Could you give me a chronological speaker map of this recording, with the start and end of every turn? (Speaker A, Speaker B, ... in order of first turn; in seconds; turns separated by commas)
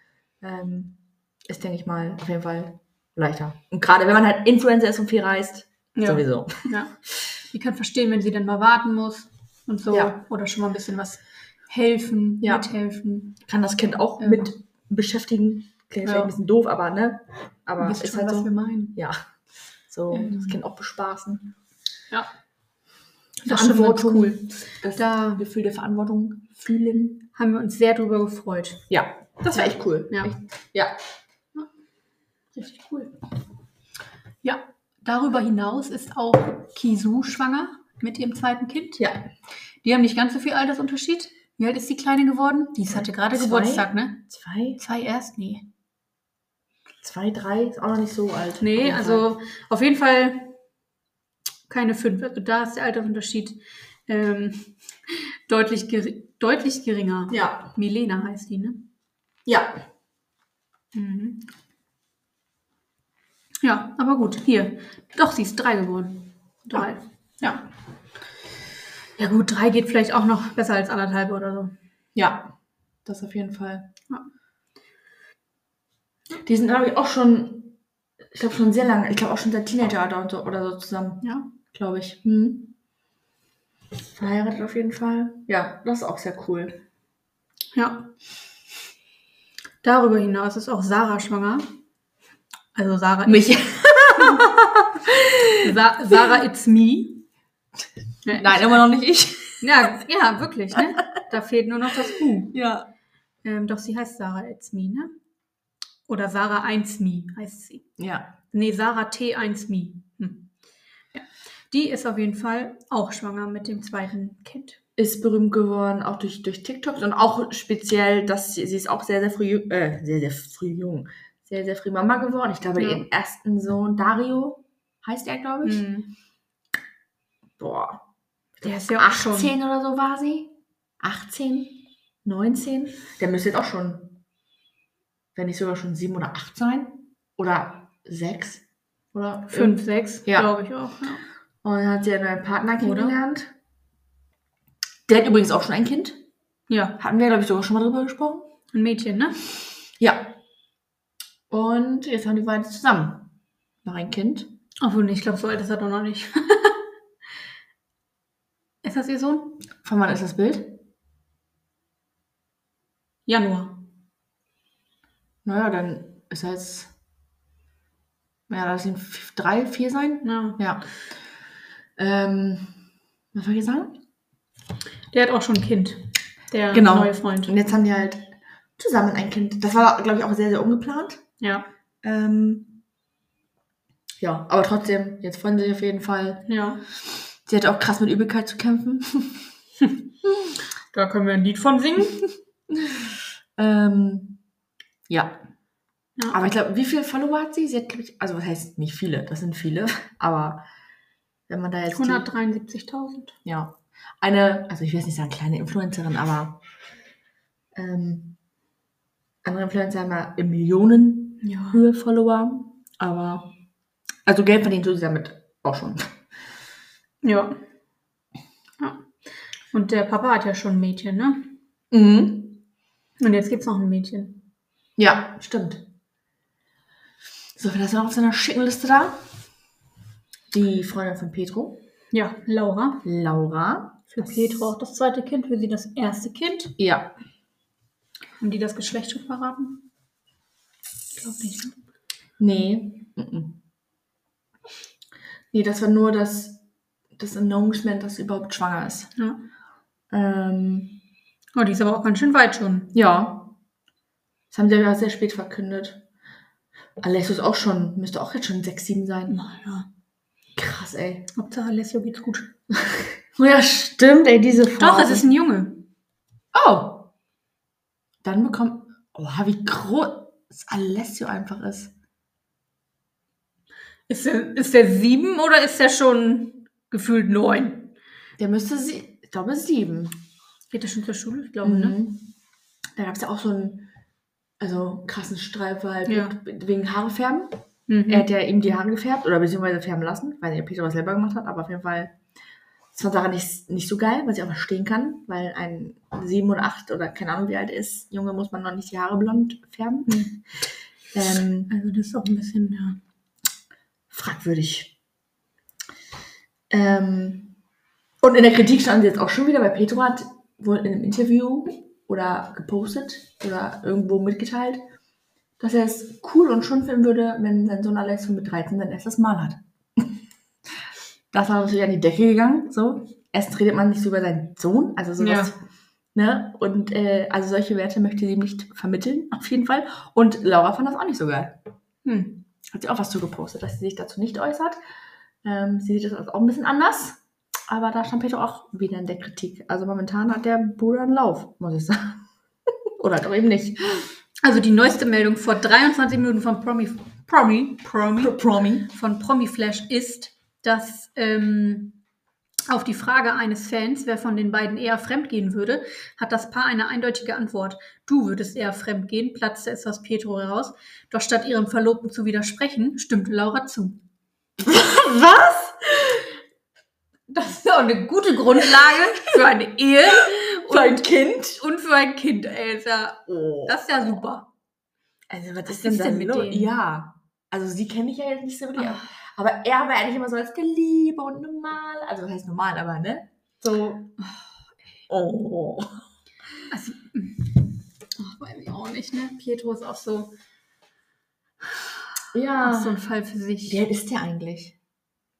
Speaker A: 0.4-6.7, Speaker B: 6.0-13.4, Speaker A: 9.9-10.2, Speaker A: 12.4-12.7, Speaker A: 13.4-19.2, Speaker B: 14.2-14.5, Speaker B: 16.0-16.3, Speaker B: 17.8-19.0, Speaker A: 19.9-21.5, Speaker B: 20.1-20.6, Speaker A: 23.4-27.2, Speaker B: 23.4-25.4, Speaker B: 27.3-28.8, Speaker A: 28.9-30.9, Speaker B: 29.5-30.3, Speaker B: 32.5-33.1, Speaker B: 34.4-39.1, Speaker A: 39.0-39.2, Speaker B: 39.8-44.2, Speaker A: 42.9-44.8, Speaker B: 44.8-45.7, Speaker A: 47.0-49.2, Speaker B: 48.6-50.6, Speaker B: 51.7-54.8, Speaker B: 55.5-58.9, Speaker A: 57.3-57.7, Speaker A: 59.5-59.8, Speaker B: 60.9-61.5, Speaker B: 63.6-67.0, Speaker B: 69.2-71.7, Speaker A: 72.1-72.5, Speaker A: 73.0-73.9, Speaker A: 76.4-77.8, Speaker A: 78.3-82.7, Speaker B: 81.2-81.5, Speaker A: 84.1-86.8, Speaker B: 87.7-88.1, Speaker B: 89.8-91.7, Speaker B: 92.7-93.6, Speaker A: 93.2-95.6, Speaker B: 95.6-97.3, Speaker B: 98.2-98.8, Speaker A: 98.3-99.7, Speaker B: 99.6-102.6, Speaker A: 102.5-102.9, Speaker B: 103.4-105.1, Speaker B: 106.1-107.8, Speaker A: 108.0-108.3, Speaker B: 108.5-110.5, Speaker B: 111.1-114.8, Speaker A: 115.0-125.8, Speaker B: 122.8-123.0, Speaker B: 125.6-126.1, Speaker A: 127.6-128.0, Speaker A: 128.6-134.2, Speaker B: 128.6-129.5, Speaker A: 135.3-140.5, Speaker B: 139.5-141.2, Speaker A: 141.6-143.5, Speaker B: 142.8-143.2, Speaker A: 145.1-146.2, Speaker B: 146.7-147.0, Speaker A: 147.0-148.5, Speaker B: 148.7-149.4, Speaker A: 150.0-150.4, Speaker A: 151.5-153.3, Speaker A: 153.8-154.5, Speaker B: 154.8-156.8, Speaker B: 158.8-159.6, Speaker A: 159.8-160.8, Speaker B: 163.3-163.8, Speaker A: 165.4-166.9, Speaker A: 168.5-170.9, Speaker B: 170.2-170.6, Speaker A: 172.0-172.8, Speaker A: 173.3-174.0, Speaker B: 175.1-177.6, Speaker A: 176.7-181.2, Speaker B: 181.4-181.7, Speaker A: 182.0-182.8, Speaker A: 184.2-186.5, Speaker B: 186.5-186.8, Speaker A: 187.4-189.5, Speaker B: 190.9-192.3, Speaker A: 192.7-194.4, Speaker A: 195.1-195.4, Speaker B: 196.2-196.4, Speaker A: 196.3-200.6, Speaker A: 201.5-202.3, Speaker B: 201.9-203.3, Speaker A: 203.4-206.6, Speaker A: 207.7-208.3, Speaker A: 209.4-213.5, Speaker B: 211.4-211.8, Speaker A: 214.2-216.1, Speaker B: 217.2-217.6, Speaker B: 218.8-219.1, Speaker B: 219.7-221.5, Speaker A: 221.9-222.6, Speaker B: 223.2-224.4, Speaker A: 225.0-225.8, Speaker A: 227.6-229.2, Speaker A: 230.5-231.8, Speaker B: 232.1-233.1, Speaker A: 233.0-234.3, Speaker B: 234.1-236.8, Speaker A: 236.8-237.1, Speaker B: 238.4-239.9, Speaker B: 241.2-241.7, Speaker A: 242.4-243.6, Speaker A: 245.5-246.6, Speaker A: 247.2-249.1, Speaker B: 249.2-249.4, Speaker A: 250.1-251.0, Speaker B: 251.6-252.9, Speaker A: 252.9-253.5, Speaker A: 254.5-256.0, Speaker A: 257.0-259.4, Speaker B: 259.3-259.9, Speaker A: 260.6-261.3, Speaker B: 261.3-262.5, Speaker A: 262.7-265.2, Speaker B: 264.8-265.9, Speaker A: 266.5-267.1, Speaker A: 268.2-271.9, Speaker B: 274.1-277.9, Speaker A: 278.4-280.2, Speaker B: 280.7-282.0, Speaker A: 281.6-282.3, Speaker A: 282.9-283.9, Speaker A: 284.6-287.5, Speaker B: 286.1-286.4, Speaker B: 287.9-288.3, Speaker A: 288.1-292.1, Speaker A: 292.9-300.4, Speaker A: 301.1-301.7, Speaker B: 301.7-303.0, Speaker A: 304.1-304.9, Speaker A: 306.7-307.5, Speaker A: 308.2-314.8, Speaker A: 315.6-320.1, Speaker A: 321.3-325.5, Speaker B: 325.2-325.5, Speaker A: 326.1-331.6, Speaker B: 332.0-332.4, Speaker A: 332.7-334.8, Speaker A: 335.4-344.1, Speaker B: 344.4-352.0, Speaker A: 348.2-348.9, Speaker B: 352.7-364.0, Speaker A: 364.6-366.3, Speaker B: 367.3-374.5, Speaker A: 368.6-369.0, Speaker A: 370.4-371.6, Speaker A: 373.3-373.8, Speaker A: 375.3-384.1, Speaker B: 375.6-376.7, Speaker B: 378.8-379.1, Speaker A: 385.1-386.0, Speaker B: 386.7-387.6, Speaker B: 388.2-390.3, Speaker A: 392.3-393.0, Speaker B: 392.6-393.8, Speaker A: 393.7-394.8